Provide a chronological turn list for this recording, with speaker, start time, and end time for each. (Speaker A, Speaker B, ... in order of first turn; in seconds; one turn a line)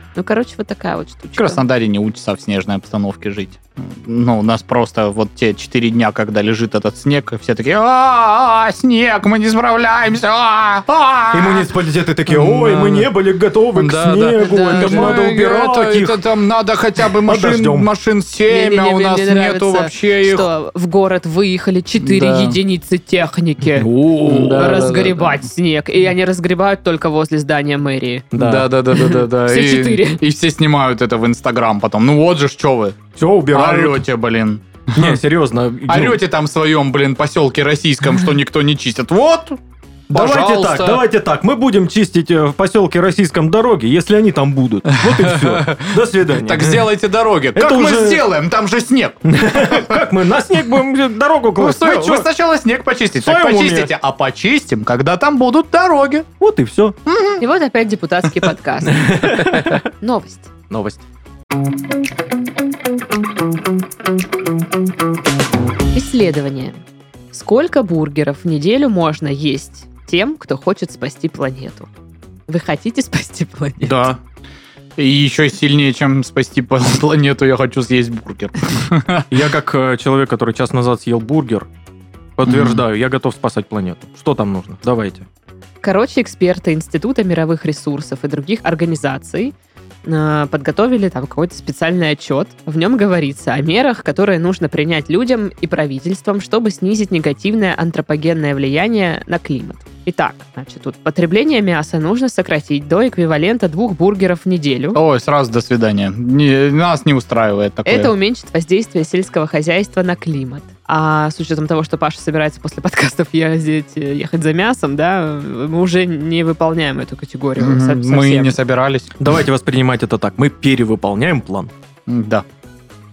Speaker A: 0.2-1.6
Speaker B: 1.4-11.7
Speaker C: 11.3-16.2
Speaker B: 12.3-13.1
Speaker B: 13.8-20.5
Speaker A: 14.4-15.3
Speaker C: 17.3-17.9
Speaker A: 18.5-28.3
Speaker B: 22.0-22.6
Speaker C: 23.8-24.7
Speaker B: 24.1-25.5
Speaker C: 28.3-28.7
Speaker B: 28.4-33.0
Speaker A: 28.9-30.2
Speaker C: 33.2-34.0
Speaker B: 33.5-35.2
Speaker C: 35.0-36.2
Speaker B: 35.9-41.0
Speaker C: 40.1-46.9
Speaker B: 45.0-50.0
Speaker C: 47.5-48.2
Speaker C: 49.3-52.3
Speaker B: 51.6-56.3
Speaker C: 53.2-53.9
Speaker C: 56.4-57.0
Speaker B: 57.1-57.4
Speaker A: 57.4-60.5
Speaker C: 58.8-59.8
Speaker C: 60.7-61.0
Speaker A: 65.9-66.8
Speaker A: 67.3-71.9
Speaker A: 72.5-74.0
Speaker C: 73.9-74.2
Speaker B: 75.0-79.3
Speaker C: 79.3-81.7
Speaker C: 82.4-85.3
Speaker B: 82.4-82.8
Speaker A: 85.8-89.5
Speaker A: 90.0-105.0
Speaker B: 105.0-108.1
Speaker A: 107.9-118.6
Speaker B: 117.6-119.3
Speaker C: 119.2-121.7
Speaker B: 122.1-122.5